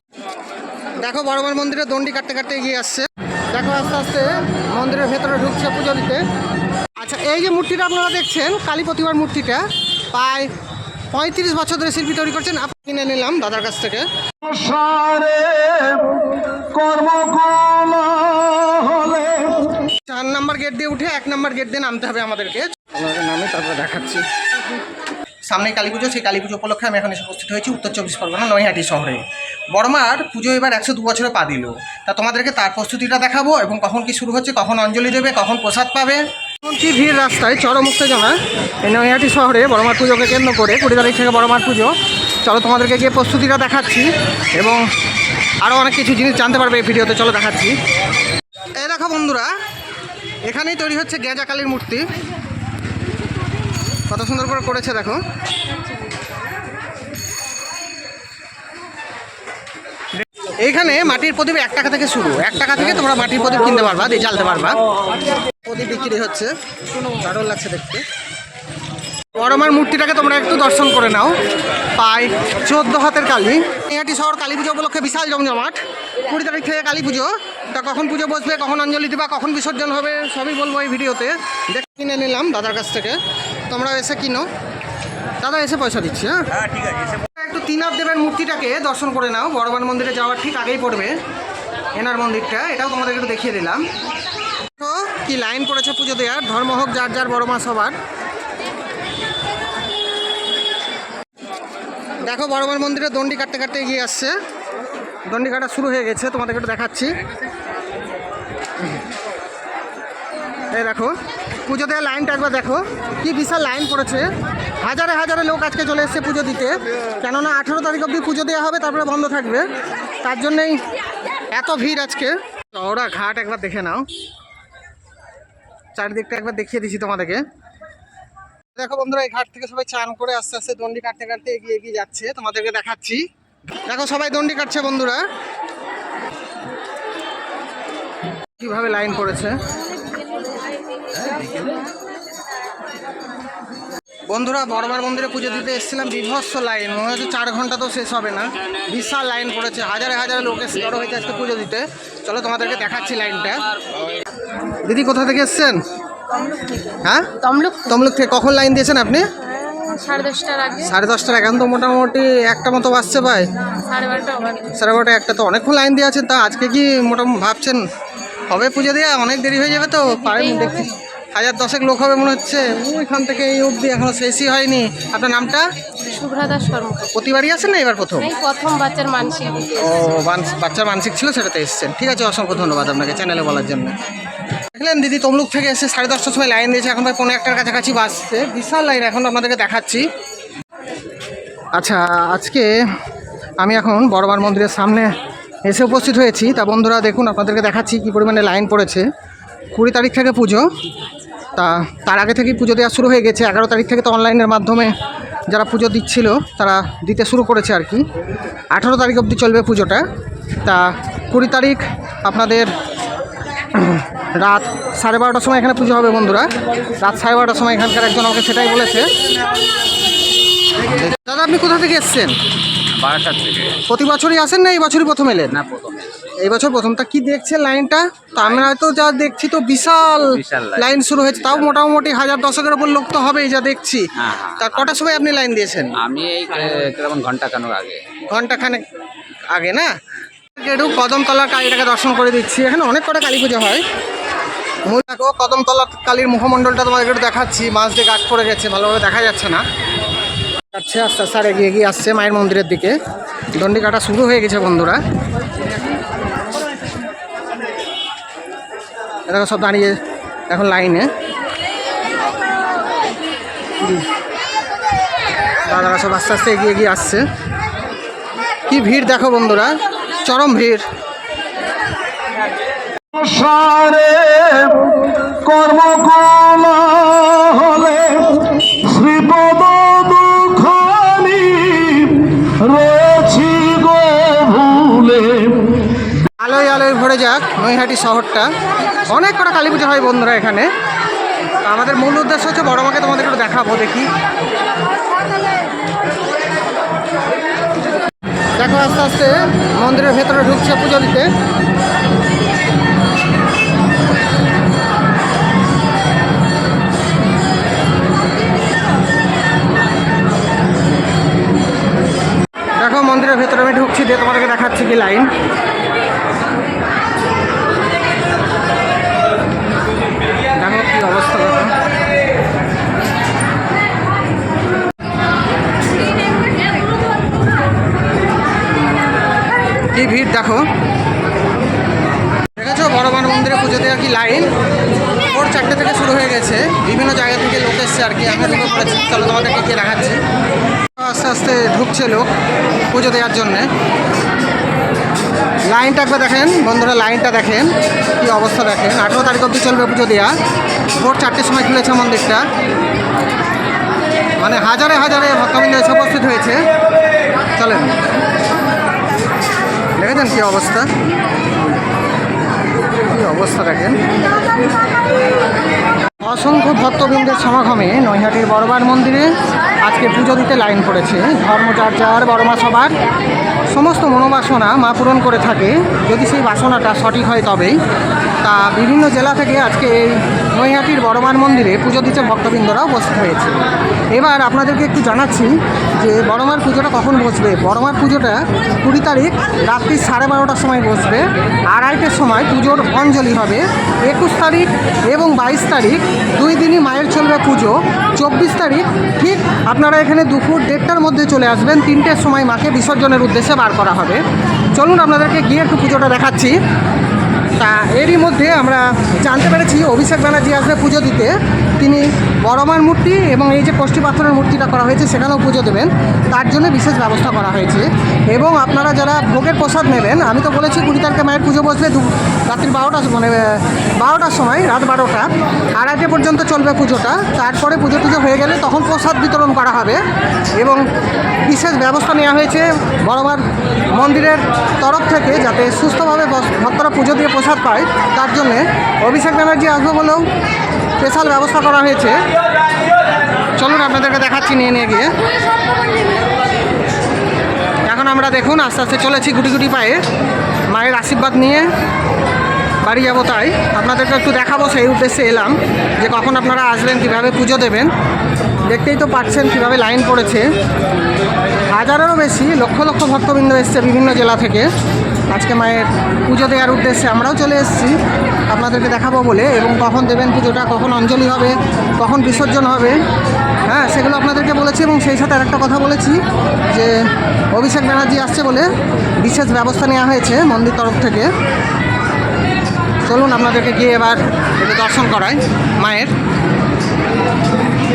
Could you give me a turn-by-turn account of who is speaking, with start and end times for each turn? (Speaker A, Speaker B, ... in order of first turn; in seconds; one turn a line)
Speaker A: 1.0-6.2
Speaker A: 7.0-10.5
Speaker A: 11.1-14.1
Speaker B: 14.4-19.7
Speaker A: 20.0-24.3
Speaker A: 25.5-44.8
Speaker A: 45.6-47.8
Speaker A: 48.8-49.5
Speaker A: 50.5-52.1
Speaker A: 54.1-55.2
Speaker A: 60.2-64.8
Speaker A: 65.6-68.1
Speaker A: 69.3-71.4
Speaker A: 72.0-84.5
Speaker A: 85.4-91.2
Speaker A: 92.0-93.8
Speaker A: 94.8-98.0
Speaker A: 102.2-104.4
Speaker A: 105.3-107.2
Speaker A: 110.7-114.3
Speaker A: 114.8-119.7
Speaker A: 120.2-120.8
Speaker A: 121.5-124.1
Speaker A: 126.0-127.4
Speaker A: 128.8-133.2
Speaker A: 133.9-135.2
Speaker A: 138.6-139.6
Speaker A: 144.3-153.7
Speaker A: 154.8-155.8
Speaker C: 156.3-158.0
Speaker A: 157.0-157.3
Speaker A: 157.8-159.3
Speaker C: 159.5-160.9
Speaker A: 160.8-163.5
Speaker C: 163.9-164.7
Speaker A: 164.7-167.8
Speaker A: 168.5-175.7
Speaker C: 170.2-170.9
Speaker C: 176.1-177.1
Speaker A: 177.1-178.3
Speaker C: 178.2-179.9
Speaker A: 179.8-184.0
Speaker A: 184.7-190.1
Speaker A: 191.8-192.8
Speaker A: 193.6-195.1
Speaker A: 195.7-199.1
Speaker A: 199.8-200.7
Speaker A: 201.6-204.9
Speaker A: 205.5-208.1
Speaker A: 208.7-210.1
Speaker A: 210.6-212.7
Speaker A: 213.7-219.1
Speaker A: 220.8-222.4
Speaker D: 222.9-223.8
Speaker A: 223.8-225.6
Speaker D: 225.5-226.1
Speaker A: 226.4-236.0
Speaker D: 228.4-228.7
Speaker D: 230.3-231.7
Speaker D: 234.2-235.0
Speaker D: 236.0-238.0
Speaker A: 238.2-238.9
Speaker A: 239.5-239.9
Speaker A: 240.5-243.8
Speaker A: 244.9-249.6
Speaker A: 250.7-253.0
Speaker A: 253.6-255.0
Speaker A: 259.3-260.0
Speaker A: 260.5-261.1
Speaker A: 265.6-267.2
Speaker A: 268.7-270.9
Speaker B: 273.1-285.9
Speaker A: 286.4-288.5
Speaker A: 289.1-290.7
Speaker A: 291.6-294.1
Speaker A: 298.6-301.3
Speaker A: 312.8-315.4
Speaker A: 320.6-321.8
Speaker A: 329.9-330.7
Speaker A: 332.6-334.5
Speaker A: 335.3-340.2
Speaker A: 341.0-342.3
Speaker A: 342.9-343.7
Speaker A: 345.7-350.3
Speaker A: 350.9-352.4
Speaker A: 354.4-356.7
Speaker A: 357.6-358.0
Speaker A: 360.0-360.9
Speaker A: 363.0-364.0
Speaker A: 366.2-372.9
Speaker A: 373.7-377.8
Speaker A: 378.4-404.2
Speaker A: 404.8-406.6
Speaker A: 407.6-430.0
Speaker A: 431.5-440.2
Speaker A: 441.0-442.2
Speaker A: 443.6-445.1
Speaker A: 447.9-450.0
Speaker A: 450.7-451.7
Speaker A: 452.8-457.9
Speaker A: 458.6-460.5
Speaker A: 461.7-464.7
Speaker A: 465.3-468.0
Speaker A: 468.5-473.0
Speaker A: 473.6-477.0
Speaker A: 477.5-481.3
Speaker A: 483.1-486.1